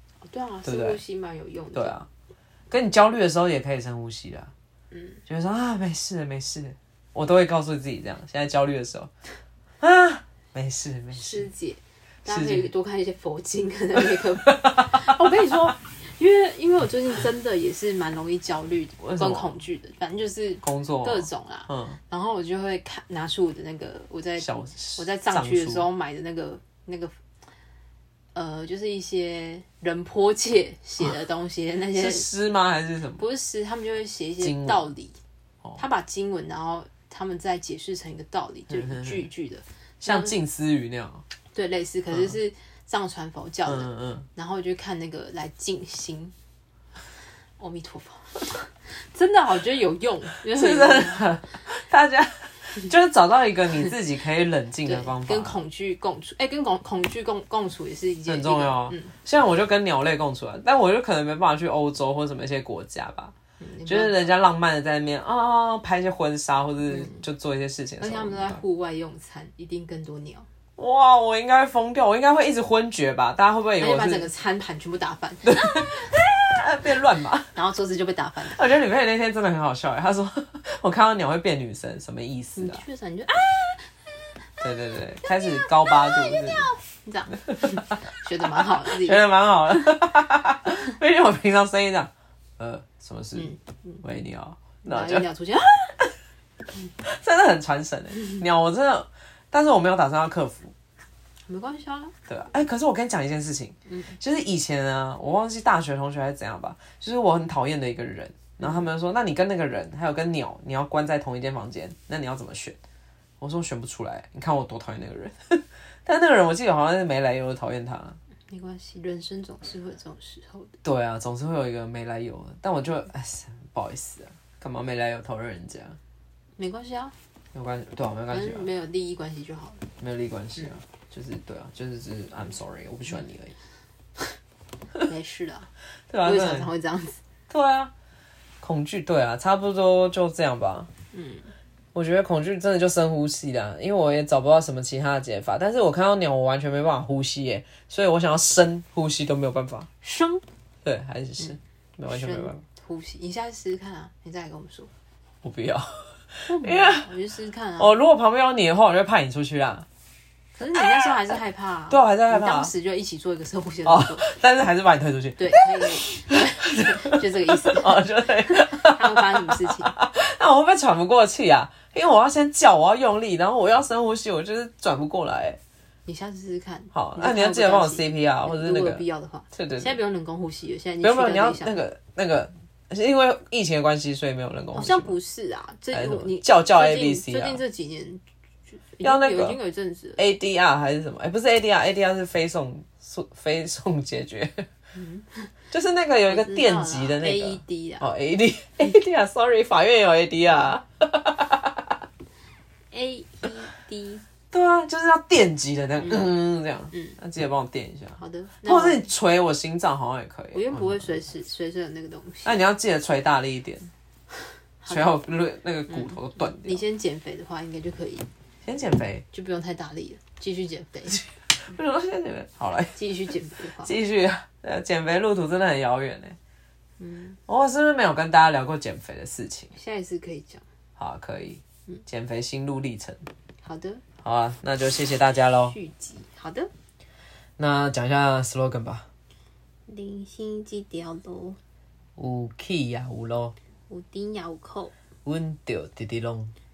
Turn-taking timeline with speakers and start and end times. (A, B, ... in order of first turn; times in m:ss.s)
0:00.2-0:02.0 A
0:00.6-0:01.0 B
0:01.7-0:02.1 B
0:02.7-0:04.5 B
0:04.9-0:05.2 A
0:05.3-0:09.1 B
0:09.8-0:11.5 B
0:11.1-0:27.2 A
0:12.3-0:12.7 B
0:14.4-0:15.6 B
0:19.0-0:19.5 B
0:20.6-0:22.0 B
0:24.4-0:25.9 B
0:28.3-0:32.3 A
0:31.9-0:33.3 B
0:33.2-0:35.2 A
0:34.4-0:34.8 B
0:35.8-0:40.3 A
0:38.7-0:39.3 B
0:40.0-0:41.2 B
0:41.5-0:46.3 A
0:43.7-0:44.3 B
0:47.6-0:51.4 A
0:50.5-0:55.6 B
0:54.8-0:59.1 A
0:58.3-1:08.6 B
1:03.6-1:04.1 A
1:06.9-1:07.2 A
1:08.0-1:10.5 A
1:10.8-1:14.3 B
1:13.8-1:16.0 A
1:15.4-1:17.5 B
1:17.5-1:18.6 A
1:18.5-1:22.8 B
1:22.6-1:24.0 A
1:24.6-1:26.7 B
1:25.2-1:30.0 A
1:27.4-1:35.3 B
1:33.4-1:34.0 A
1:34.8-1:36.0 A
1:37.0-1:40.7 B
1:41.5-1:42.2 A
1:42.3-1:52.8 B
1:43.9-1:44.2 A
1:48.6-1:48.9 A
1:53.4-1:58.2 B
1:58.5-2:00.8 A
2:00.8-2:06.0 B
2:06.6-2:07.2 A
2:07.5-2:08.7 B
2:08.3-2:09.9 A
2:10.0-2:13.5 B
2:15.1-2:15.7 A
2:16.1-2:16.7 B
2:16.2-2:17.2 A
2:17.5-2:17.9 B
2:18.6-2:20.9 B
2:21.1-2:21.5 A
2:22.0-2:29.9 B
2:30.0-2:30.4 A
2:30.8-2:32.6 B
2:32.1-2:34.9 A
2:35.4-2:37.1 B
2:36.5-2:37.9 A
2:37.8-2:39.9 B
2:40.6-2:44.2 A
2:41.9-2:42.7 B
2:43.9-2:55.6 B
2:45.4-2:49.9 A
2:56.1-3:01.8 A
2:56.9-2:59.0 B
2:59.5-3:00.0 B
3:01.0-3:05.2 B
3:04.7-3:10.2 A
3:05.9-3:07.6 B
3:09.0-3:09.6 B
3:10.2-3:14.7 B
3:14.9-3:15.5 A
3:15.7-3:21.9 B
3:16.3-3:18.1 A
3:22.9-3:24.2 A
3:24.5-3:31.2 B
3:26.0-3:26.3 A
3:26.9-3:27.2 A
3:28.2-3:29.1 A
3:30.5-3:32.6 A
3:32.4-3:33.9 B
3:34.8-3:35.2 A
3:34.9-3:36.8 B
3:35.9-3:38.3 A
3:38.6-3:39.2 B
3:39.3-3:41.2 A
3:41.1-3:43.0 B
3:43.0-3:43.9 A
3:43.6-3:46.4 B
3:47.0-3:47.4 A
3:47.5-3:49.7 B
3:49.7-3:50.6 A
3:51.0-3:53.3 B
3:53.6-3:54.0 A
3:54.2-3:55.8 B
3:55.7-3:56.7 A
3:57.6-3:59.1 B
3:59.9-4:01.6 A
4:02.2-4:03.6 B
4:03.9-4:04.9 A
4:05.2-4:06.5 B